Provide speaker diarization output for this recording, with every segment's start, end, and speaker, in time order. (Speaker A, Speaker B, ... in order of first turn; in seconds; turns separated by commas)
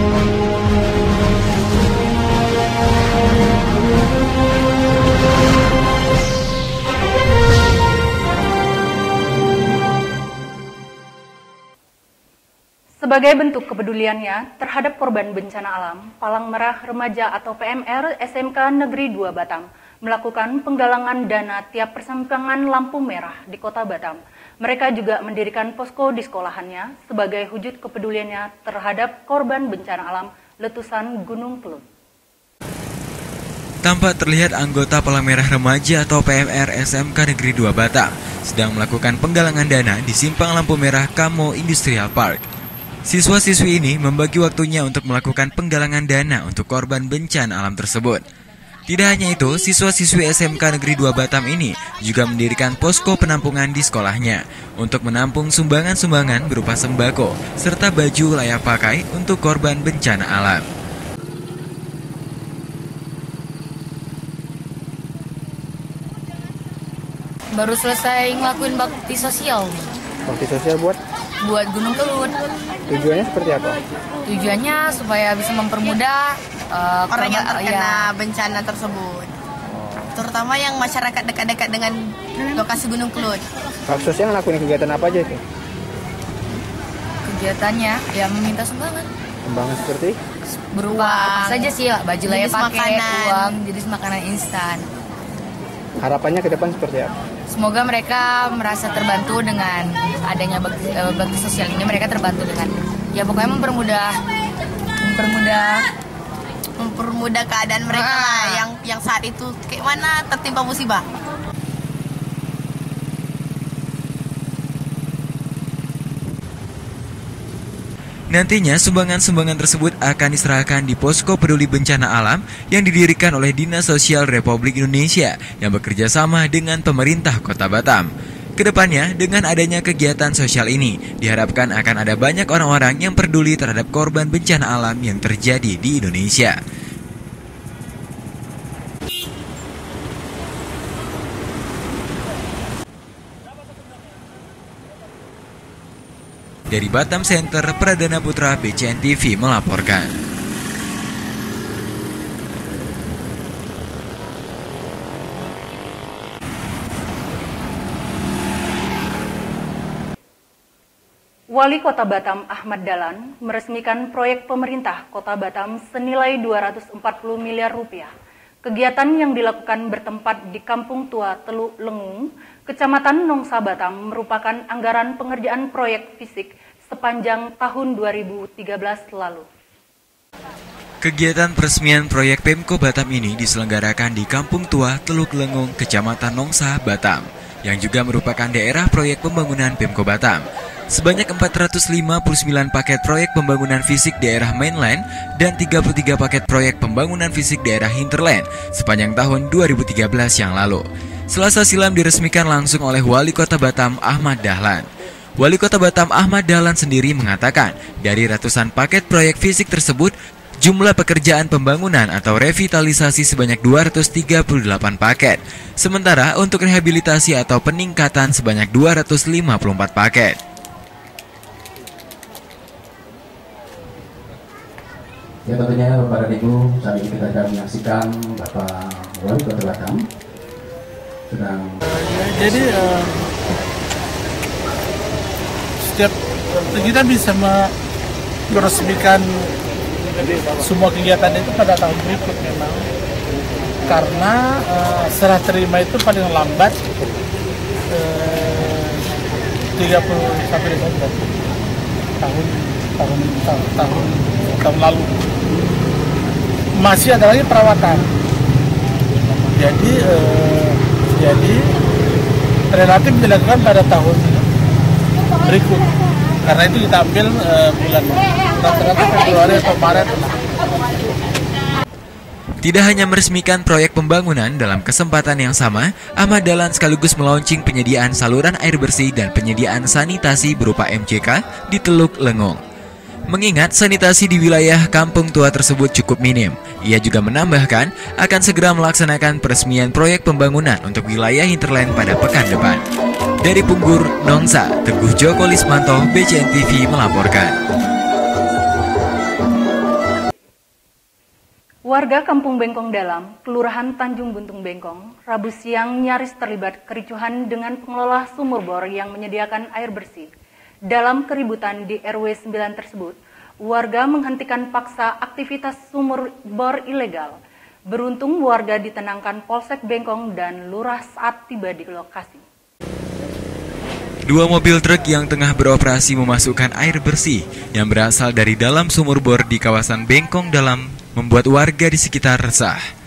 Speaker A: 13.0-31.8, Speaker B: 33.8-42.4, Speaker B: 43.1-48.2, Speaker B: 48.9-60.6, Speaker C: 67.5-69.9, Speaker D: 70.3-71.0, Speaker C: 71.4-72.3, Speaker D: 72.9-73.8, Speaker C: 74.3-78.1, Speaker E: 77.1-79.3, Speaker D: 79.8-80.1, Speaker E: 80.2-83.4, Speaker D: 83.9-85.4, Speaker C: 87.2-89.1, Speaker D: 89.5-90.2, Speaker C: 90.7-94.9, Speaker E: 90.9-91.7, Speaker E: 92.3-93.5, Speaker D: 96.0-97.1, Speaker C: 97.5-104.1, Speaker C: 105.0-105.8, Speaker E: 106.8-111.0, Speaker C: 107.9-108.7, Speaker B: 118.3-136.6, Speaker B: 146.7-150.1, Speaker A: 161.5-168.1, Speaker A: 168.7-179.5, Speaker B: 181.0-204.8, Speaker B: 205.4-220.4, Speaker F: 225.5-230.0, Speaker F: 231.3-231.7, Speaker G: 231.9-233.3, Speaker G: 235.8-237.7, Speaker G: 238.5-239.5, Speaker G: 240.6-242.8, Speaker G: 243.9-246.8, Speaker G: 247.9-249.1, Speaker G: 249.8-251.3, Speaker G: 252.2-255.1, Speaker G: 256.8-258.1, Speaker G: 259.5-261.7, Speaker G: 262.7-264.5, Speaker G: 265.4-265.9, Speaker G: 266.4-270.3, Speaker B: 272.6-282.6, Speaker B: 283.3-292.8, Speaker B: 293.4-297.6, Speaker A: 301.9-310.3, Speaker A: 310.9-317.3, Speaker A: 317.9-322.4, Speaker B: 324.3-332.8